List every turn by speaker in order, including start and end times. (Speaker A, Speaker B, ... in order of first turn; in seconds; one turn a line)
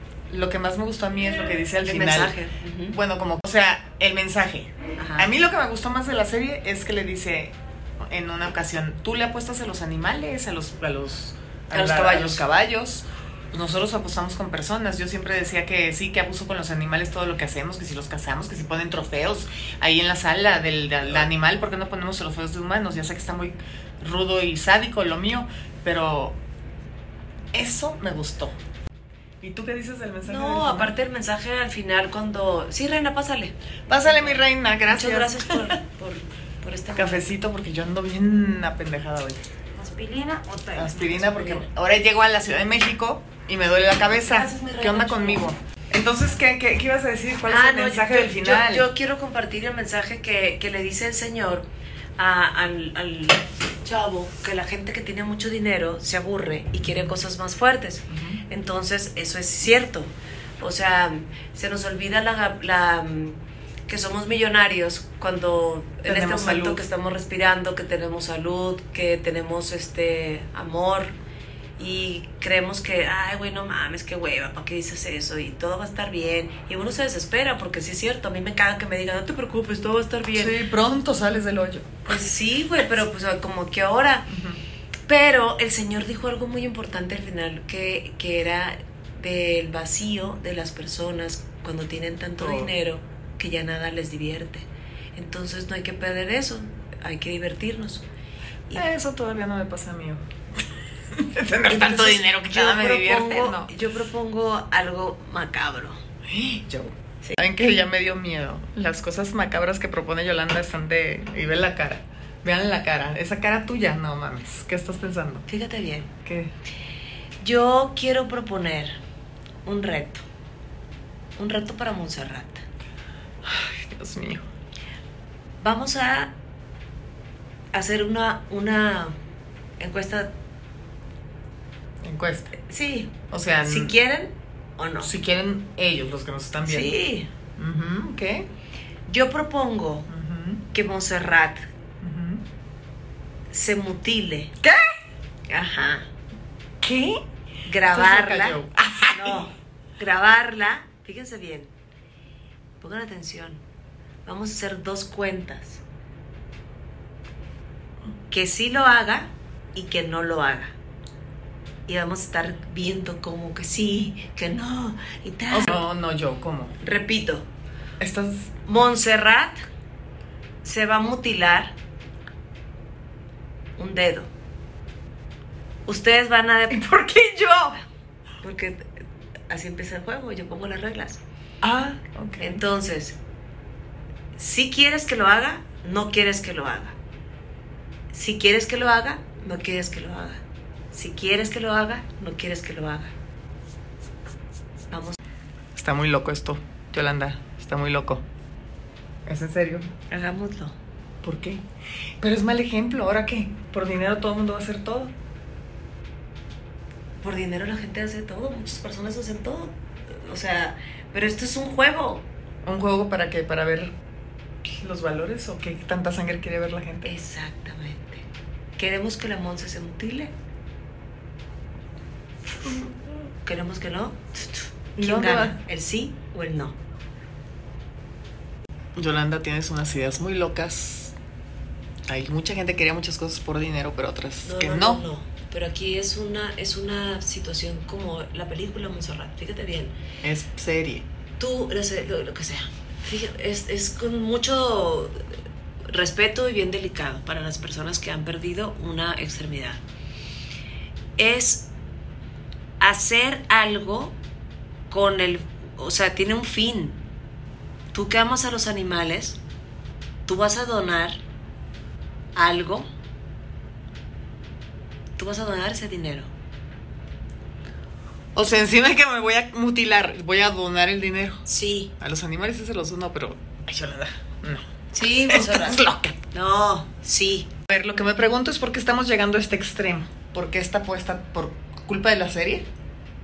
Speaker A: 0.3-2.3
Speaker B: 1.9-3.0
Speaker A: 2.9-26.4
Speaker B: 5.0-5.3
Speaker B: 11.7-12.4
Speaker A: 27.5-28.6
Speaker A: 29.4-30.9
Speaker B: 30.2-37.3
Speaker A: 33.9-35.8
Speaker A: 36.9-39.4
Speaker B: 39.8-41.7
Speaker A: 40.7-48.9
Speaker B: 44.1-45.4
Speaker B: 47.5-51.6
Speaker B: 52.2-71.1
Speaker A: 56.8-57.1
Speaker A: 58.1-58.4
Speaker A: 66.0-66.8
Speaker B: 71.8-80.6
Speaker A: 80.3-81.9
Speaker B: 82.0-84.2
Speaker A: 84.3-84.6
Speaker B: 85.1-98.0
Speaker A: 92.4-92.7
Speaker A: 98.7-100.2
Speaker A: 101.1-103.8
Speaker B: 101.7-106.0
Speaker A: 106.3-115.5
Speaker B: 115.5-116.1
Speaker A: 116.2-116.5
Speaker B: 117.4-119.0
Speaker B: 119.6-120.2
Speaker B: 121.4-122.6
Speaker A: 123.4-124.4
Speaker B: 125.6-126.3
Speaker B: 127.7-129.1
Speaker B: 129.8-130.3
Speaker A: 132.0-132.5
Speaker B: 132.6-135.1
Speaker A: 133.3-133.9
Speaker A: 135.0-136.9
Speaker B: 136.6-137.3
Speaker A: 137.6-138.5
Speaker B: 139.1-140.1
Speaker A: 140.1-140.6
Speaker B: 140.7-141.6
Speaker A: 142.0-142.4
Speaker B: 143.5-144.5
Speaker B: 145.5-146.1
Speaker A: 146.8-147.2
Speaker B: 147.6-148.6
Speaker A: 147.9-149.5
Speaker B: 149.1-151.7
Speaker B: 152.8-153.6
Speaker B: 154.2-155.8
Speaker B: 158.3-160.7
Speaker B: 161.9-165.8
Speaker A: 165.5-166.7
Speaker B: 166.8-167.5
Speaker A: 168.0-168.5
Speaker B: 168.6-169.6
Speaker B: 170.6-171.7
Speaker B: 173.8-174.3
Speaker B: 175.8-176.9
Speaker A: 176.7-177.8
Speaker B: 178.4-181.2
Speaker A: 181.6-182.6
Speaker B: 182.4-183.2
Speaker B: 184.3-186.9
Speaker B: 188.1-193.1
Speaker B: 194.9-195.2
Speaker A: 195.7-198.2
Speaker A: 199.2-199.9
Speaker B: 200.1-200.8
Speaker A: 201.2-201.6
Speaker A: 202.2-205.1
Speaker B: 207.2-212.2
Speaker A: 212.6-213.9
Speaker A: 214.6-217.1
Speaker B: 217.0-218.2
Speaker B: 218.8-220.3
Speaker A: 222.6-223.0
Speaker B: 223.4-226.8
Speaker A: 225.0-225.6
Speaker A: 228.9-231.1
Speaker A: 232.1-235.0
Speaker B: 234.4-239.9
Speaker A: 240.2-241.0
Speaker B: 241.4-245.2
Speaker B: 245.9-249.8
Speaker B: 251.2-251.7
Speaker B: 252.8-254.2
Speaker B: 254.9-257.0
Speaker B: 257.9-259.4
Speaker B: 260.2-261.2
Speaker B: 262.3-262.9
Speaker B: 265.2-266.3
Speaker A: 268.3-271.4
Speaker B: 271.4-271.9
Speaker A: 272.0-276.2
Speaker B: 274.9-277.5
Speaker A: 277.7-282.7